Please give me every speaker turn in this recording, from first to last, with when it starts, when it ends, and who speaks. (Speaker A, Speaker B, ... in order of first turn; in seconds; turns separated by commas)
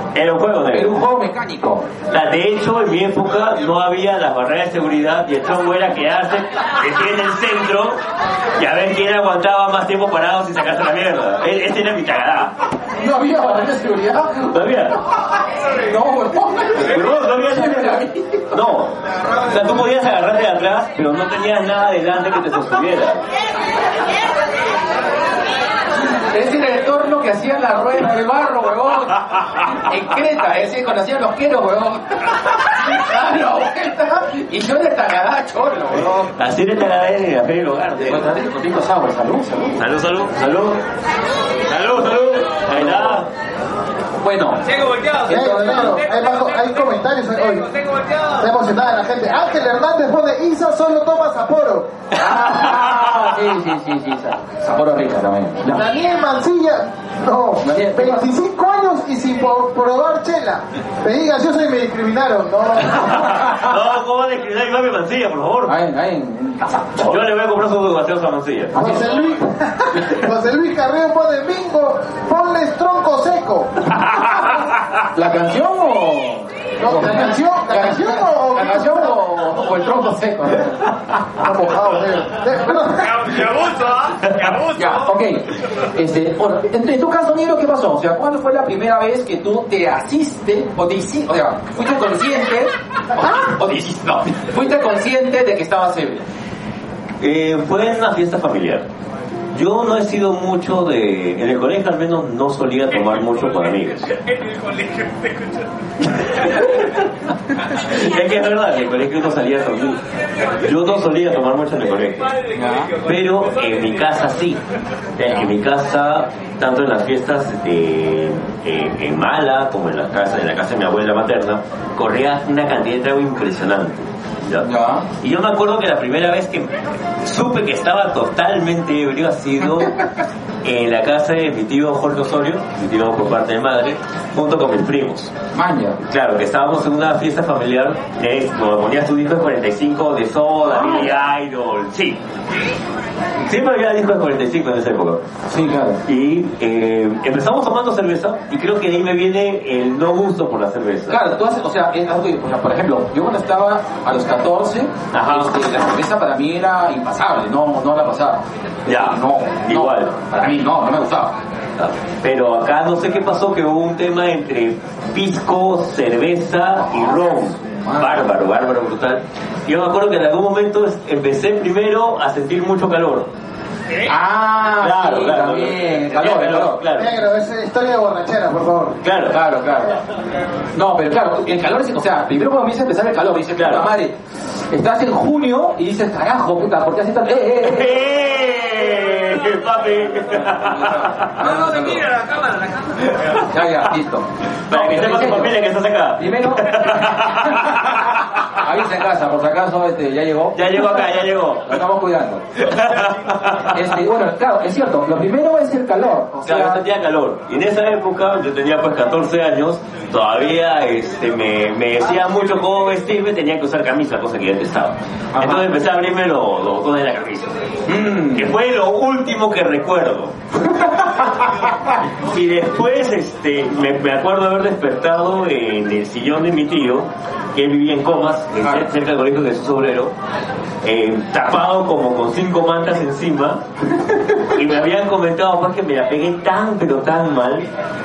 Speaker A: 0.1-0.9, Speaker B: 0.7-1.9, Speaker A: 2.1-8.0, Speaker A: 8.6-12.5, Speaker B: 13.0-14.6, Speaker A: 14.5-15.0, Speaker B: 15.9-18.6, Speaker A: 16.7-18.9, Speaker A: 19.5-23.2, Speaker B: 26.0-36.3, Speaker A: 36.4-38.3, Speaker B: 38.0-39.8, Speaker A: 39.8-40.8, Speaker A: 41.7-43.3, Speaker B: 42.7-43.2, Speaker B: 44.2-44.6, Speaker C: 44.7-48.4, Speaker B: 45.2-46.0, Speaker D: 45.3-47.7, Speaker D: 48.4-51.9, Speaker B: 52.2-55.9, Speaker D: 55.7-63.2, Speaker B: 57.6-58.3, Speaker A: 63.0-65.8, Speaker B: 65.7-67.2, Speaker A: 67.0-68.8, Speaker B: 68.7-69.2, Speaker D: 68.8-73.7, Speaker B: 69.9-70.2, Speaker B: 75.1-81.2, Speaker D: 76.8-79.1, Speaker D: 81.4-83.1, Speaker C: 83.0-85.0, Speaker B: 84.7-96.3, Speaker A: 97.2-98.9, Speaker A: 99.5-104.1, Speaker C: 104.1-105.6, Speaker A: 107.8-110.0, Speaker A: 110.6-112.3, Speaker C: 112.2-114.0, Speaker B: 112.5-112.9, Speaker A: 113.0-114.6, Speaker A: 115.2-124.7, Speaker B: 124.6-125.1, Speaker A: 125.2-129.9, Speaker A: 130.6-135.3, Speaker B: 135.5-136.0, Speaker A: 136.1-142.2, Speaker B: 140.6-141.2, Speaker A: 143.4-145.2, Speaker B: 145.5-146.0, Speaker A: 146.1-151.2, Speaker B: 151.1-161.4, Speaker A: 155.1-155.5, Speaker A: 158.9-160.1, Speaker A: 161.8-173.3, Speaker B: 167.0-168.3, Speaker B: 174.0-176.8, Speaker A: 174.8-177.2, Speaker D: 177.0-179.0, Speaker A: 179.0-179.4, Speaker B: 179.3-180.0, Speaker B: 180.7-184.2, Speaker A: 183.6-183.9, Speaker B: 184.7-188.0, Speaker A: 187.6-191.4, Speaker B: 190.5-192.1, Speaker C: 191.4-193.1, Speaker A: 193.0-193.4, Speaker B: 193.5-195.6, Speaker A: 194.7-197.9, Speaker B: 196.2-202.4, Speaker A: 200.6-201.8, Speaker A: 202.6-203.8, Speaker B: 203.7-206.8, Speaker A: 206.5-220.3, Speaker B: 215.3-215.7, Speaker B: 217.9-218.6, Speaker A: 222.2-230.1, Speaker A: 230.8-233.6, Speaker A: 234.5-237.7